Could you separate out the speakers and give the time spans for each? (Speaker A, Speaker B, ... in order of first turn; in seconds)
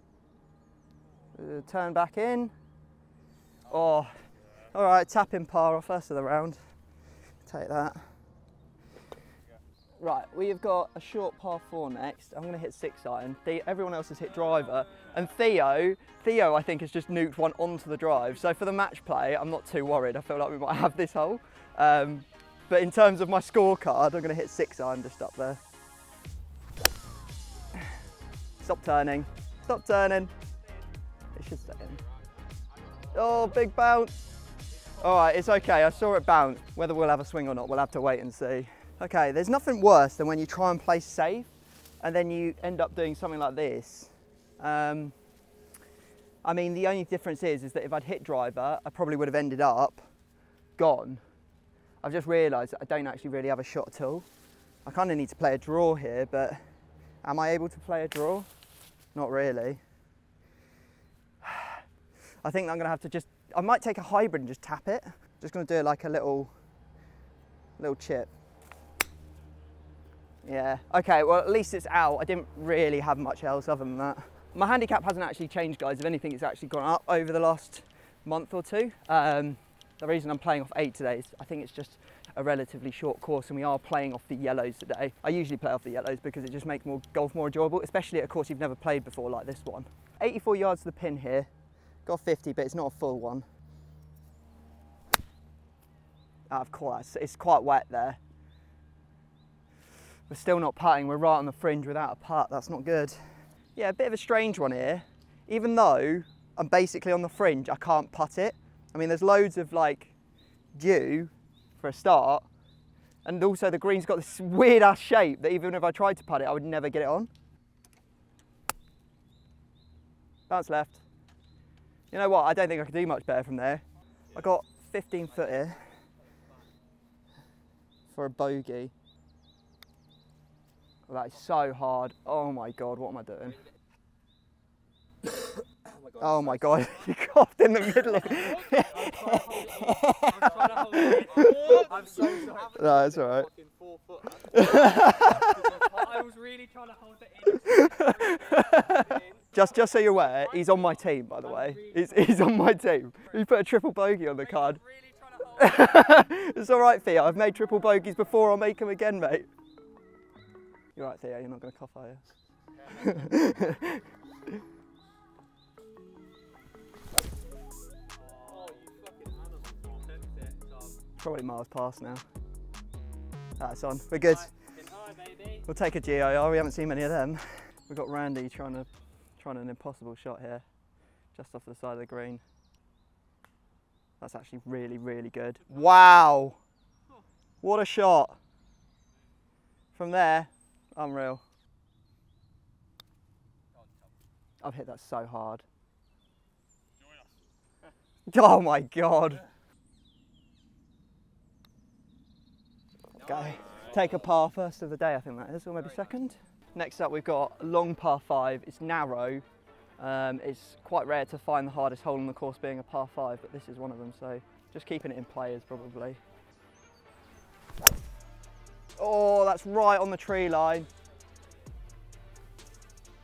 Speaker A: 1.3-2.5, 3.7-4.2, 4.7-6.6, 7.4-8.0, 10.0-25.6, 28.6-30.3, 31.3-32.0, 33.1-34.2, 35.0-41.5, 42.0-45.1, 46.4-50.1, 50.8-51.2, 52.0-54.2, 54.8-56.6, 57.2-58.5, 59.1-59.8, 61.4-61.8, 62.4-66.5, 67.8-68.3, 70.4-91.5, 92.0-93.4, 96.5-98.2, 100.3-103.2, 103.8-110.1, 110.7-112.5, 113.2-117.3, 120.5-121.0, 122.1-125.8, 128.1-128.9, 131.1-133.6, 136.2-141.8, 142.7-143.5, 144.5-146.0, 147.5-154.8, 155.5-159.5, 161.0-162.2, 162.9-164.0, 171.2-172.2, 173.6-174.5, 175.7-178.9, 179.4-180.6, 181.3-182.4, 184.2-186.6, 187.6-188.4, 189.9-191.4, 194.6-195.6, 198.3-199.4, 203.2-209.4, 210.0-216.2, 219.0-220.9
Speaker B: 32.9-33.6, 125.3-126.6, 138.2-143.0, 145.6-152.4, 154.4-156.2, 168.2-168.8, 169.9-171.0, 174.1-175.7, 203.2-204.2
Speaker C: 135.9-136.8, 138.2-139.9, 141.1-146.1, 168.5-170.2, 203.4-204.2